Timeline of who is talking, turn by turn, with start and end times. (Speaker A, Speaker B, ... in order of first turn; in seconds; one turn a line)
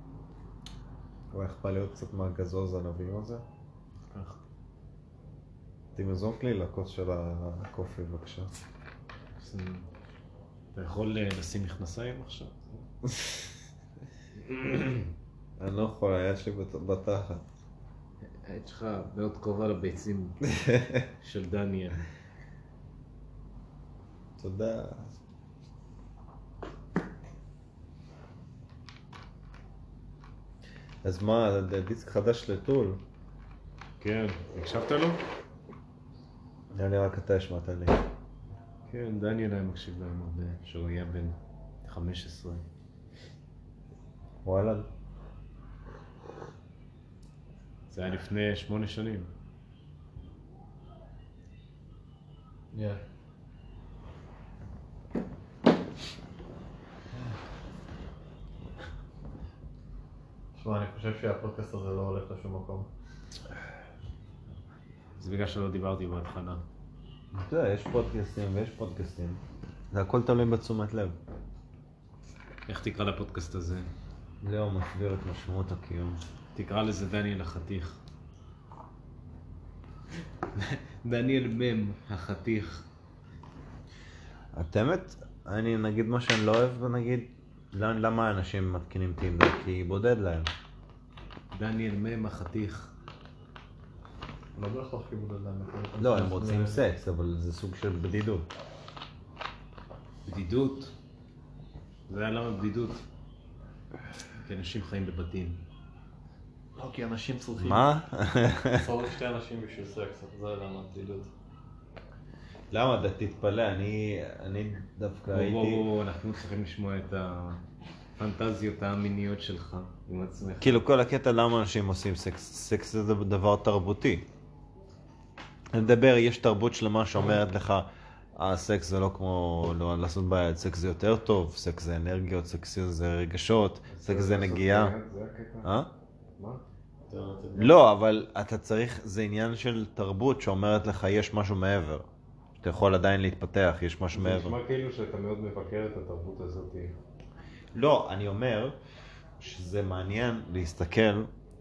Speaker A: 1.3-3.4
Speaker B: 4.1-4.4
Speaker A: 5.9-8.5
Speaker B: 9.4-9.9
Speaker B: 10.7-12.9
Speaker A: 13.1-13.4
Speaker A: 15.6-17.4
Speaker B: 18.2-20.4
Speaker A: 20.4-21.1
Speaker B: 21.2-22.0
Speaker A: 24.4-25.1
Speaker A: 31.0-33.0
Speaker B: 34.0-35.2
Speaker A: 36.7-38.0
Speaker B: 38.9-42.6
Speaker A: 44.4-44.9
Speaker B: 47.9-49.3
Speaker C: 52.7-53.0
Speaker C: 60.5-62.9
Speaker B: 65.2-66.6
Speaker A: 67.3-71.2
Speaker B: 72.7-73.9
Speaker A: 74.4-76.2
Speaker B: 76.5-78.0
Speaker B: 80.5-82.8
Speaker A: 84.5-90.5
Speaker B: 91.5-92.9
Speaker C: 94.5-96.8
Speaker A: 96.0-98.5
Speaker B: 100.2-100.9
Speaker B: 102.1-103.0
Speaker B: 104.4-105.6
Speaker C: 106.8-107.9
Speaker A: 107.6-108.9
Speaker C: 108.7-111.3
Speaker A: 112.7-115.8
Speaker B: 115.3-117.6
Speaker B: 118.2-120.8
Speaker A: 120.6-124.3
Speaker A: 125.7-134.9
Speaker B: 133.9-135.7
Speaker A: 135.6-135.9
Speaker C: 137.1-137.8
Speaker A: 137.5-142.1
Speaker A: 142.6-144.6
Speaker B: 144.1-146.9
Speaker A: 147.7-148.8
Speaker A: 149.4-151.3